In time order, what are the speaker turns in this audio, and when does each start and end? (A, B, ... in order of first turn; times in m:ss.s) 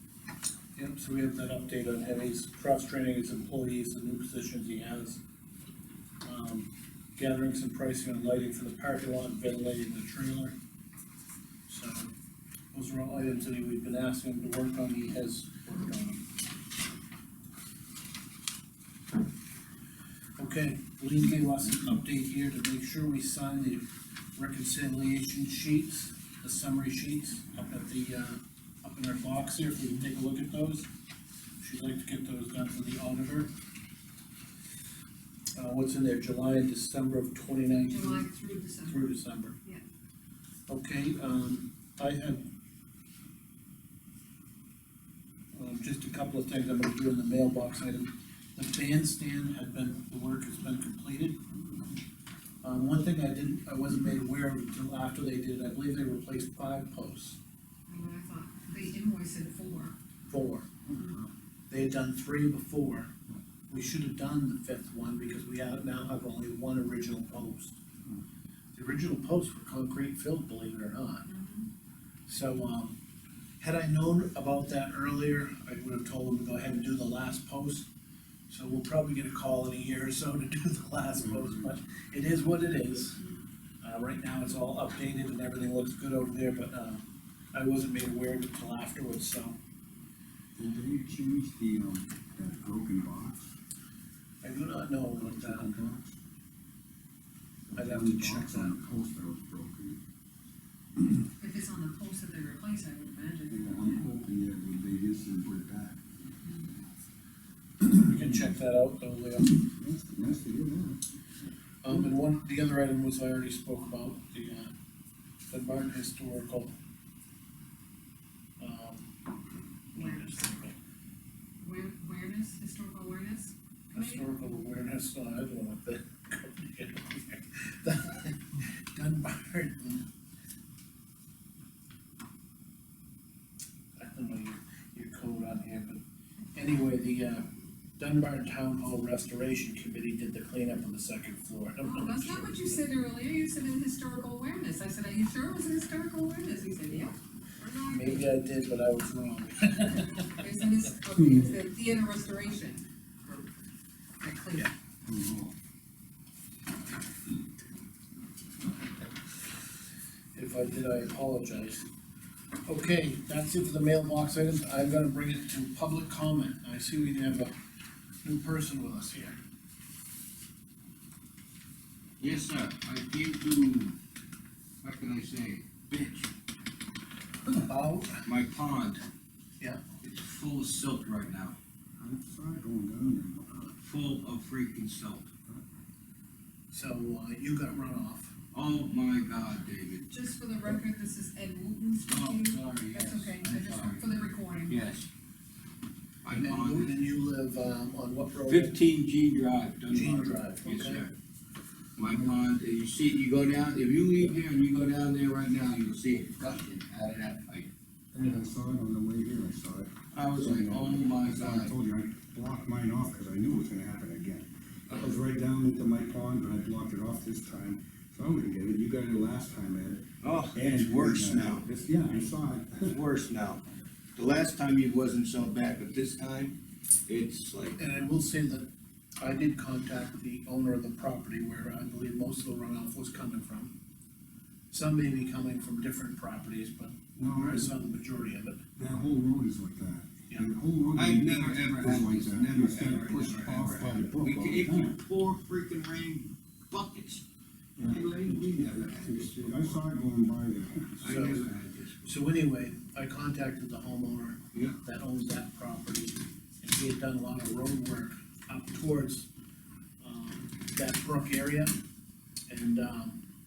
0:00.8-0:05.2 A
0:06.2-0:10.5 A
0:11.7-0:12.1 A
0:12.7-0:16.2 A
0:20.4-0:30.8 A
0:31.6-0:33.5 A
0:35.6-0:38.3 A
0:37.8-0:39.8 B
0:38.8-0:39.6 A
0:40.7-0:42.4 A
0:45.5-0:51.4 A
0:52.6-0:57.4 A
0:57.9-1:00.0 B
1:00.3-1:00.7 A
1:01.7-1:03.1 A
1:03.7-1:07.7 A
1:08.7-1:11.3 A
1:11.2-1:11.7 B
1:12.3-1:12.9 A
1:13.6-1:17.9 A
1:18.5-1:23.2 A
1:21.1-1:21.7 C
1:23.8-1:29.6 A
1:30.6-1:33.5 C
1:34.4-1:35.7 A
1:35.2-1:36.1 C
1:37.7-1:40.0 C
1:37.7-1:38.7 A
1:41.4-1:44.0 B
1:43.5-1:46.0 C
1:47.8-1:49.6 A
1:48.1-1:48.6 C
1:49.7-1:51.0 C
1:51.8-1:54.7 A
1:55.5-1:56.7 A
1:58.6-1:59.0 A
1:59.9-2:00.7 A
2:00.0-2:00.3 B
2:01.6-2:04.2 B
2:03.9-2:10.0 A
2:14.0-2:16.0 A
2:16.5-2:22.7 A
2:21.8-2:28.3 B
2:27.9-2:30.3 A
2:30.3-2:32.8 B
2:34.2-2:34.7 B
2:35.1-2:35.5 C
2:40.3-2:41.8 A
2:42.6-2:47.5 A
2:48.2-2:49.4 A
2:52.2-2:53.9 D
2:54.8-2:56.3 D
2:57.5-2:58.2 A
2:58.2-2:59.0 D
3:00.0-3:01.6 D
3:02.0-3:03.8 C
3:03.8-3:05.3 D
3:06.7-3:08.3 A
3:08.5-3:10.1 D
3:10.1-3:14.8 B
3:12.0-3:14.1 D
3:14.7-3:15.1 D
3:16.2-3:16.9 D
3:16.3-3:18.8 A
3:18.4-3:21.1 D
3:19.9-3:21.1 A
3:22.0-3:27.7 D
3:28.1-3:43.0 C
3:30.1-3:31.7 D
3:34.9-3:35.1 D
3:40.2-3:41.6 D
3:42.8-3:43.6 D
3:44.2-3:46.6 D
3:47.1-3:47.8 D
3:47.8-3:48.7 A
3:49.2-3:53.7 A
3:54.7-3:58.6 A
3:57.2-3:57.7 C
3:58.8-4:05.0 C
4:00.9-4:07.2 D
4:07.8-4:09.8 D
4:07.8-4:11.2 C
4:11.0-4:12.1 D
4:11.0-4:11.4 A
4:12.0-4:19.3 A
4:20.0-4:21.7 A
4:22.5-4:23.2 A